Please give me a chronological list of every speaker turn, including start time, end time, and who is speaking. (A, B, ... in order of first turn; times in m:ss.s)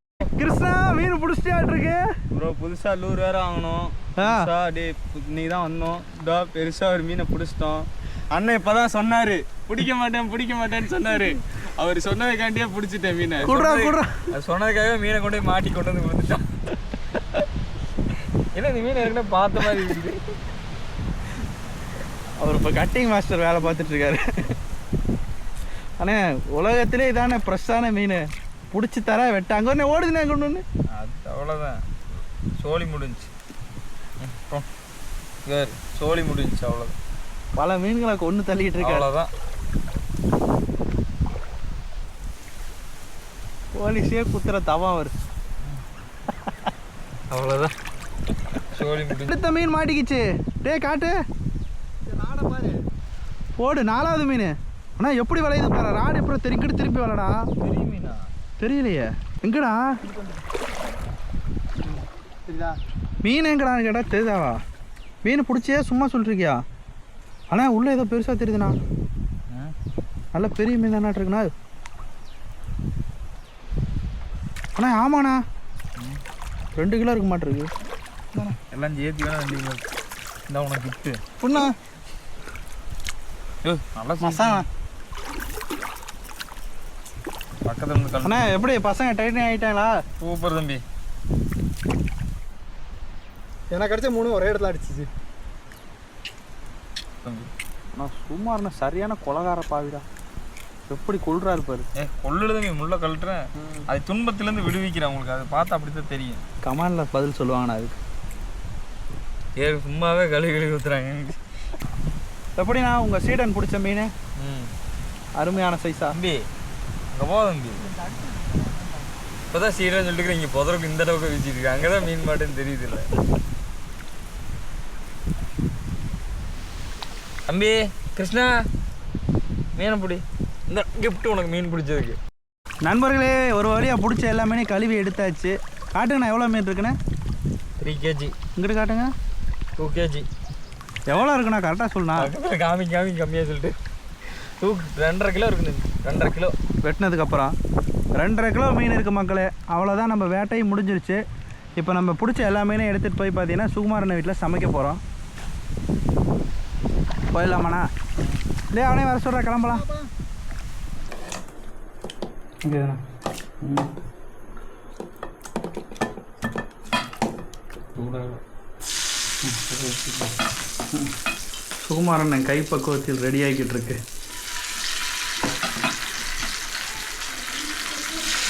0:00.3-0:02.0 A
0:02.3-0:16.6 B
0:04.2-0:04.5 A
0:13.4-0:14.2 A
0:18.5-0:20.2 B
0:22.4-0:24.5 A
0:26.0-0:30.6 A
0:30.9-0:31.8 B
0:32.6-0:33.3 B
0:34.2-0:34.6 B
0:35.4-0:37.0 B
0:37.6-0:39.1 A
0:38.8-0:39.3 B
0:43.7-0:45.1 A
0:47.3-0:47.7 B
0:48.7-0:49.4 B
0:49.3-0:51.1 A
0:52.1-0:52.8 C
0:53.6-0:57.4 A
0:57.6-0:58.3 B
0:58.6-0:59.8 A
1:01.8-1:02.8 C
1:03.2-1:04.6 A
1:05.2-1:06.6 A
1:07.5-1:08.8 A
1:09.5-1:09.7 B
1:10.3-1:11.5 A
1:14.8-1:15.4 A
1:16.7-1:17.7 A
1:18.5-1:19.8 B
1:20.5-1:21.2 B
1:21.4-1:21.7 C
1:23.6-1:24.6 B
1:24.2-1:24.6 C
1:27.6-1:28.5 B
1:28.2-1:29.9 A
1:30.2-1:30.8 B
1:33.7-1:35.1 C
1:37.2-1:37.5 B
1:37.9-1:40.0 A
1:40.9-1:41.9 A
1:42.0-1:46.4 B
1:46.6-1:48.0 A
1:49.6-1:51.4 B
1:52.6-1:54.1 A
1:54.4-1:54.7 B
1:55.4-1:56.1 A
1:56.1-1:56.5 B
1:57.1-1:57.9 B
1:57.8-1:59.1 C
1:59.5-2:03.1 B
2:07.5-2:08.6 B
2:09.8-2:12.2 B
2:12.8-2:16.9 A
2:17.8-2:18.3 B
2:18.6-2:19.1 A
2:19.8-2:20.3 B
2:21.1-2:22.3 A
2:22.1-2:23.8 B
2:24.3-2:26.5 B
2:26.8-2:27.5 A
2:28.2-2:31.2 A
2:31.8-2:35.0 A
2:37.3-2:37.9 A
2:38.7-2:39.8 A
2:39.6-2:40.1 C
2:42.6-2:43.0 A
2:43.6-2:43.9 A
2:48.0-2:48.4 B
2:49.7-2:50.3 B
2:51.8-2:54.0 A